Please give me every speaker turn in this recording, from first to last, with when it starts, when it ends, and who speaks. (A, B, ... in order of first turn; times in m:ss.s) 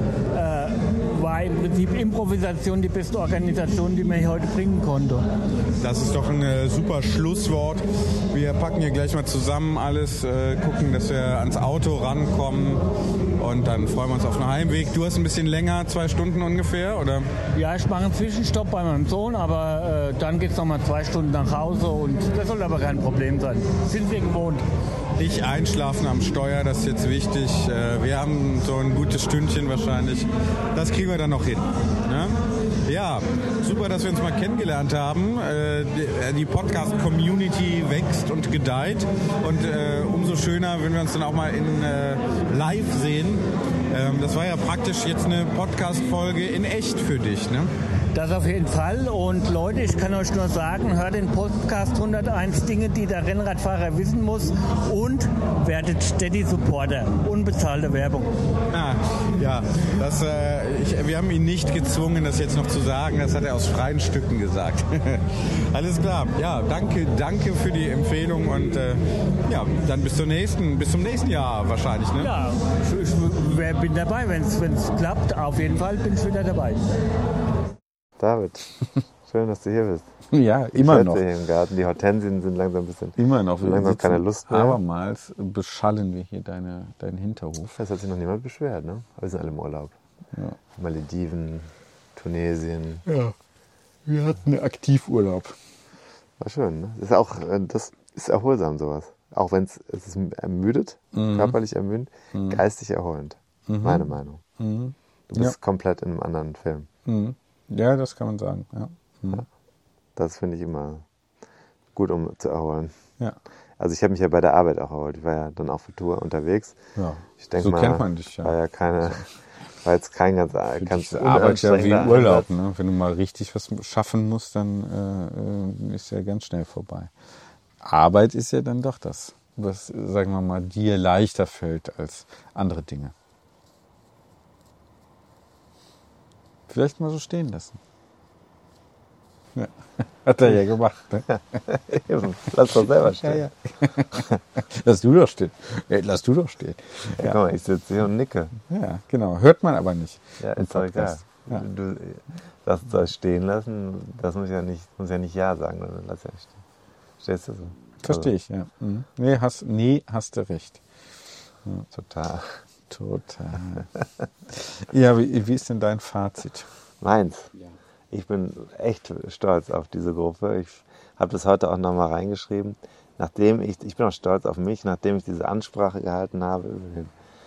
0:00.3-0:05.2 A
0:05.8-0:12.8 B
0:13.4-0:17.3 B
0:17.5-0:24.6 A
0:25.2-0:47.7 B
0:48.1-0:58.3 A
0:58.7-1:12.3 B
1:12.2-1:16.8 A
1:18.2-1:18.7 C
1:19.3-1:20.1 C
1:20.3-1:21.2 D
1:20.7-1:24.8 C
1:23.2-1:27.8 D
1:27.7-1:30.0 C
1:30.8-1:33.0 C
1:33.0-1:33.3 D
1:34.0-1:35.6 D
1:36.4-1:44.4 C
1:41.1-1:41.6 D
1:42.3-1:42.6 D
1:43.7-1:45.5 D
1:45.3-1:46.9 C
1:47.0-1:49.4 D
1:50.2-1:51.0 C
1:51.9-1:52.9 C
1:53.8-1:56.8 C
1:57.0-1:58.5 D
1:57.4-1:59.2 C
1:59.8-2:02.5 C
2:00.7-2:07.1 D
2:07.8-2:13.1 D
2:16.7-2:17.8 D
2:19.5-2:21.6 D
2:21.7-2:23.5 C
2:23.2-2:27.4 D
2:27.2-2:28.5 C
2:28.7-2:31.6 D
2:30.4-2:36.6 C
2:37.2-2:38.3 C
2:38.0-2:40.8 D
2:41.9-2:42.6 C
2:42.9-2:43.9 D
2:44.5-2:46.7 D
2:47.0-2:47.5 C
2:48.1-2:57.1 C